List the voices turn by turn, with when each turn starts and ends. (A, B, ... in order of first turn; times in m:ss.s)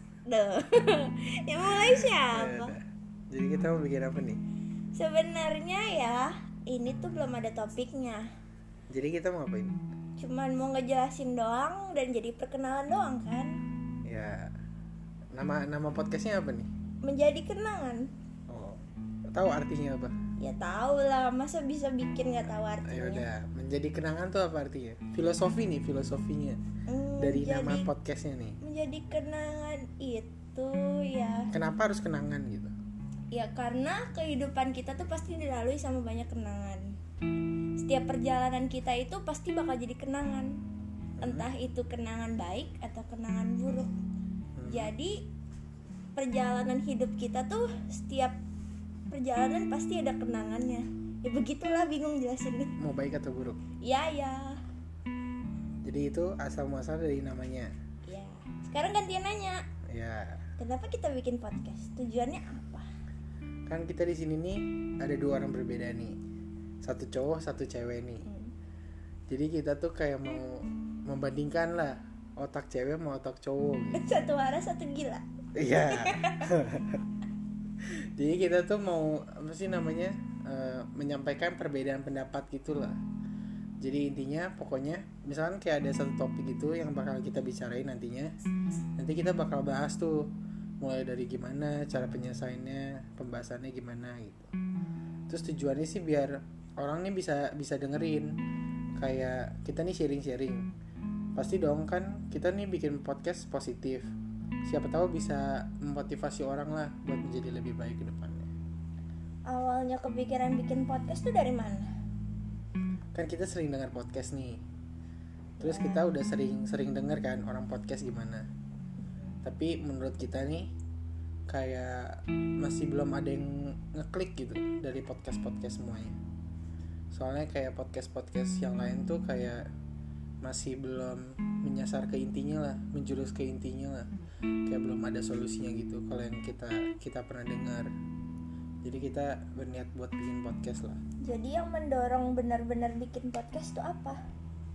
0:00.2-0:02.8 A
0:02.0-0:04.4 B
0:05.0-0:08.2 A
0:08.9-0:09.8 B
0:10.2-0:13.6 A
0:14.1-0:14.5 B
0:15.3-0:16.7 B
0:17.0-0:18.0 A
0:18.5-0:20.2 B
0:20.4-0:23.3 A
0:22.9-0:26.6 B
0:26.9-0:27.9 A
0:27.2-0:28.6 B
0:28.6-0:31.5 A
0:31.5-0:32.7 B
0:33.3-0:36.9 A
0:37.8-0:40.5 A
0:41.2-0:41.5 B
0:41.2-0:43.9 A
0:44.6-0:44.9 B
0:44.6-0:45.2 A
0:46.2-0:48.4 A
0:49.1-0:52.8 A
0:52.8-0:53.6 B
0:53.8-0:54.6 A
0:55.8-0:57.7 B
0:58.1-0:59.6 A
0:59.9-1:00.4 B
1:00.6-1:02.9 A
1:03.7-1:06.2 B
1:06.8-1:08.3 B
1:08.2-1:08.5 A
1:09.3-1:14.0 B
1:13.9-1:16.5 A
1:15.6-1:17.0 B
1:17.8-1:23.0 B
1:23.8-1:28.3 B
1:29.0-1:30.3 B
1:30.8-1:34.5 B
1:35.3-1:38.3 B
1:39.0-1:40.7 B
1:41.4-1:44.1 B
1:44.6-1:48.5 B
1:49.5-1:51.8 A
1:53.2-1:54.6 B
1:55.6-1:56.1 A
1:55.6-1:58.4 B
1:59.4-2:00.7 B
2:01.5-2:06.2 B
2:07.1-2:09.6 B
2:10.4-2:14.1 B
2:14.7-2:17.9 B
2:18.8-2:21.0 B
2:21.2-2:24.2 A